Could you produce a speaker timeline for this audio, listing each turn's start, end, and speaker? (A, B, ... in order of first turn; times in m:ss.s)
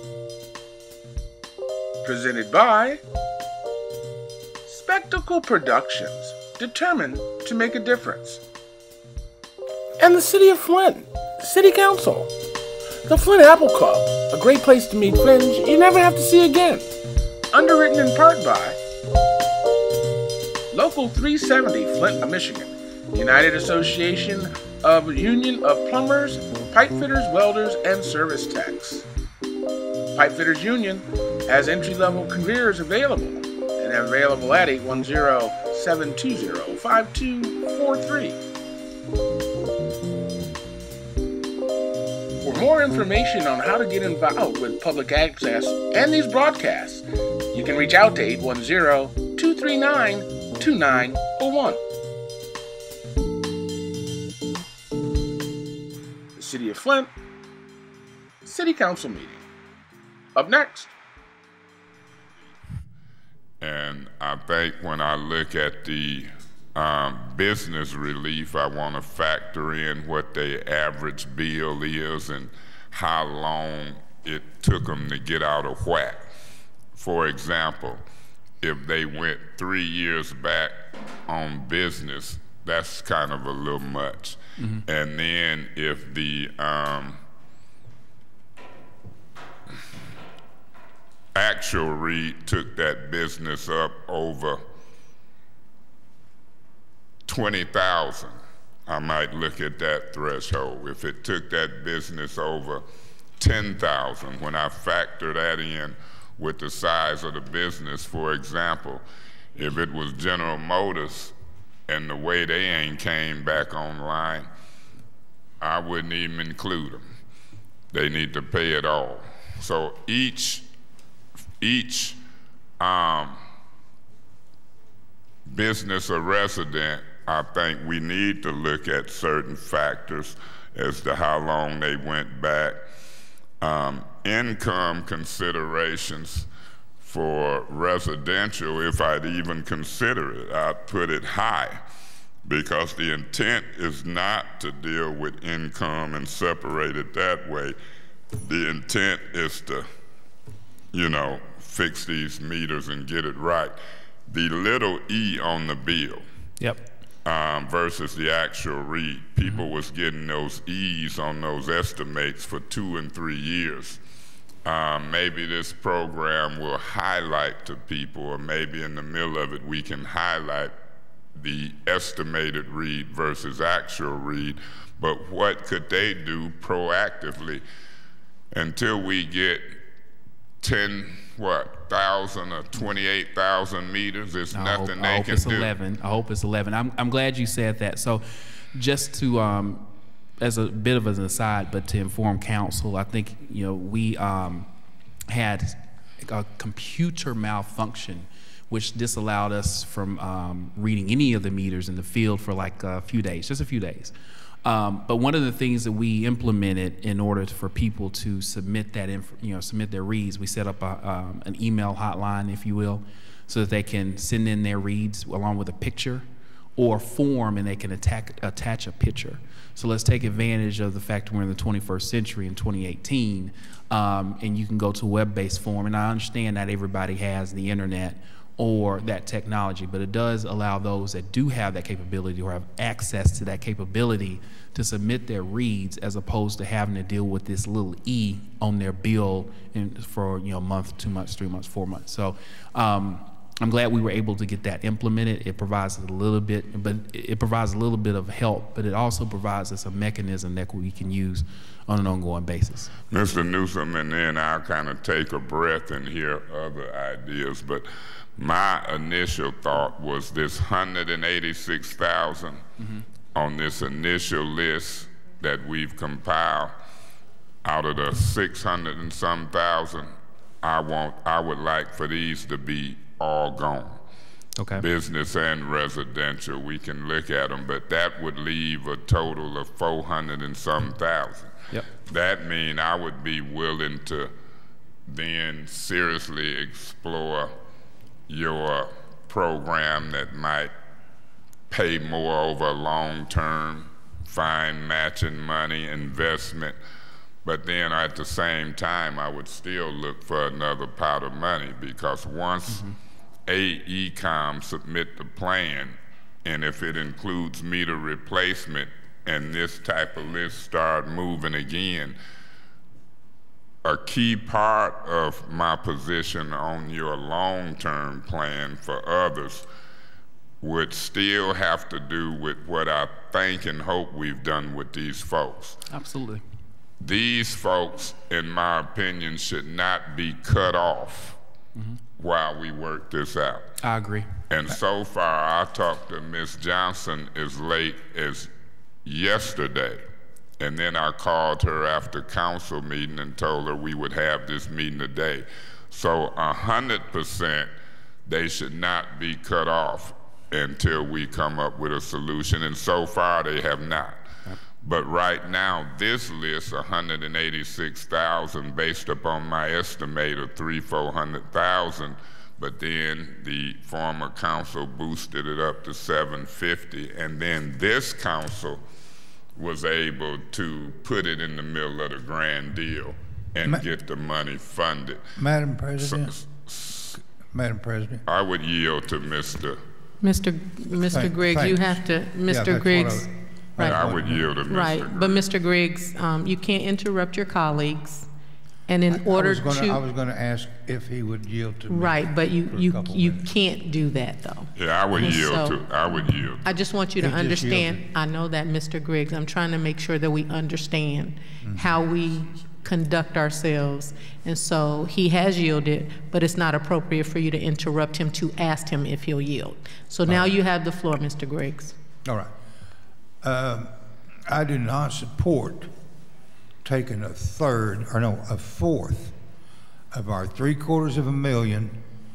0:02.0-0:03.0 A
0:04.7-0:08.4 A
0:10.0-0:12.3 A
0:13.1-0:16.9 A
0:17.5-0:18.8 A
0:20.7-0:29.0 A
0:30.1-0:38.4 A
0:42.4-0:51.8 A
0:56.4-0:57.1 A
0:58.4-0:59.4 A
1:00.4-1:00.9 A
1:03.6-1:16.2 B
1:17.0-1:18.0 B
1:18.6-1:27.2 B
1:24.6-1:24.8 C
1:31.4-1:34.6 B
1:37.3-1:38.4 B
1:38.9-1:42.8 B
1:43.4-1:49.0 B
1:49.6-1:51.3 B
1:51.9-1:54.5 B
1:55.6-1:57.0 B
1:57.9-2:00.6 B
2:01.6-2:02.2 B
2:02.8-2:03.4 B
2:05.5-2:12.8 B
2:13.6-2:16.5 B
2:17.0-2:21.8 B
2:22.5-2:27.8 B
2:28.4-2:29.9 B
2:30.9-2:33.8 B
2:34.3-2:36.2 B
2:36.6-2:36.9 C
2:37.2-2:44.0 B
2:44.6-2:50.7 B
2:51.4-2:57.6 B
2:58.5-2:59.8 B
3:00.6-3:05.7 B
3:04.5-3:09.9 C
3:10.4-3:14.7 C
3:15.3-4:12.9 C
4:13.1-4:22.6 B
4:23.4-4:26.7 B
4:27.6-4:34.0 B
4:34.6-4:34.8 C
4:34.8-4:41.5 B
4:42.1-4:44.3 B
4:45.1-4:47.6 B
4:48.3-4:50.7 B
4:51.7-4:56.8 B
4:57.4-5:02.9 B
5:02.7-5:03.0 C
5:03.5-5:12.2 B
5:13.8-5:19.7 B
5:20.6-5:25.8 B
5:25.9-5:26.4 C
5:27.0-5:31.4 B
5:32.2-5:33.8 B
5:33.8-5:34.3 C
5:34.5-5:38.5 B
5:39.0-5:40.0 B
5:40.6-5:47.7 B
5:48.3-5:54.2 B
5:54.8-6:08.8 B
6:09.6-6:15.2 B
6:15.4-6:16.4 D
6:16.0-6:17.1 B
6:17.2-6:18.2 D
6:18.3-6:19.8 B
6:20.2-6:23.3 E
6:21.0-6:24.5 D
6:23.8-6:25.4 B
6:24.7-6:28.3 E
6:28.9-6:30.0 E
6:29.1-6:33.4 D
6:31.9-6:35.8 E
6:34.8-6:36.6 B
6:36.6-6:52.0 E
6:37.2-6:38.1 D
6:41.6-6:42.0 D
6:50.3-6:50.5 D
6:52.2-6:52.5 D
6:53.4-6:53.9 D
6:54.5-6:55.9 D
6:56.8-6:59.4 D
7:00.1-7:02.0 D